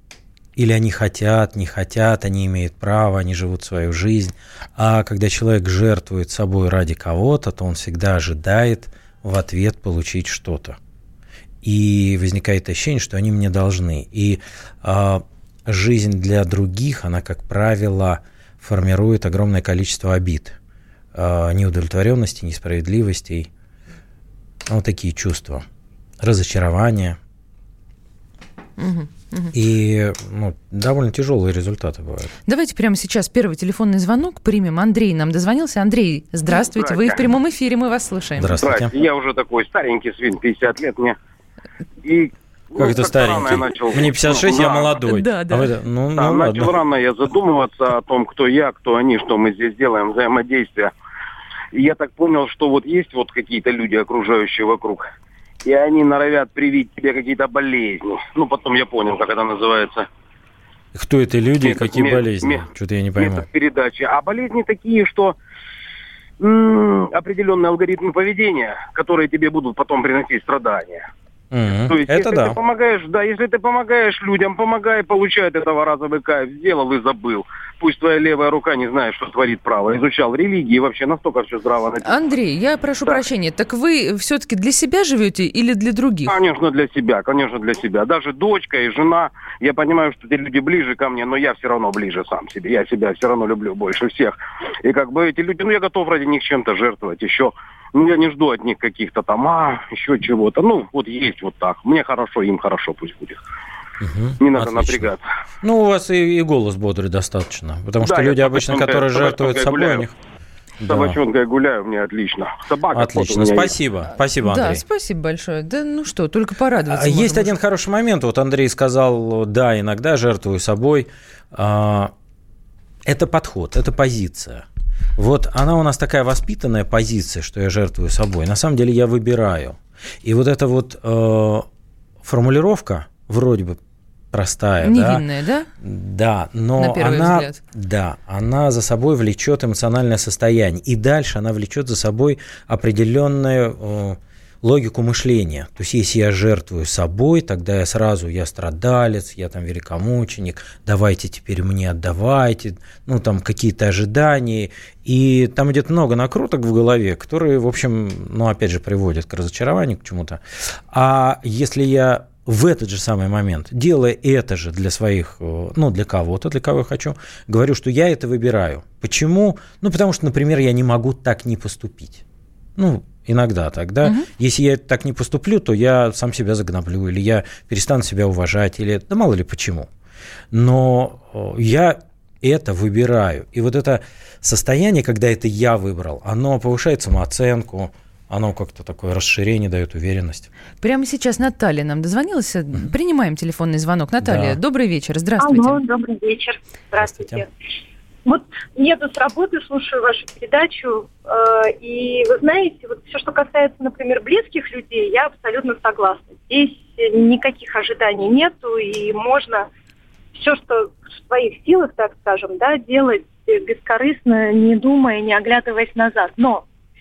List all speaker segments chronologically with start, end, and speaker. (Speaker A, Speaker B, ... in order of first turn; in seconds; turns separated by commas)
Speaker A: 0.6-10.8, Speaker A: 11.6-20.6, Speaker A: 21.1-23.5, Speaker A: 24.7-25.6, Speaker A: 26.2-27.2, Speaker B: 28.8-29.5, Speaker A: 29.5-32.3, Speaker B: 32.5-38.6, Speaker C: 36.5-37.2, Speaker A: 38.4-38.9, Speaker C: 38.6-41.2, Speaker C: 42.0-44.9, Speaker A: 42.8-46.8, Speaker B: 45.0-45.7, Speaker C: 46.1-50.9, Speaker C: 51.7-55.0, Speaker C: 55.6-60.1, Speaker A: 60.9-63.5, Speaker C: 61.6-62.6, Speaker C: 63.2-65.3, Speaker C: 66.4-71.0, Speaker A: 71.5-72.6, Speaker C: 71.8-82.1, Speaker B: 82.0-86.4, Speaker C: 86.3-103.4, Speaker A: 104.0-110.2, Speaker C: 104.4-105.2, Speaker C: 108.0-110.1, Speaker A: 110.8-111.2, Speaker C: 110.8-113.8, Speaker A: 112.9-114.8, Speaker B: 114.4-117.5, Speaker A: 116.8-122.1, Speaker A: 123.0-124.6, Speaker A: 125.2-131.7, Speaker A: 132.2-133.8, Speaker A: 134.3-135.2, Speaker B: 134.8-135.7, Speaker A: 135.8-172.2, Speaker B: 136.8-137.6, Speaker A: 172.8-179.9, Speaker A: 180.5-190.5, Speaker B: 190.8-195.8, Speaker A: 194.2-194.6, Speaker D: 195.4-197.5, Speaker A: 197.0-197.4, Speaker D: 198.2-209.7, Speaker D: 210.3-216.6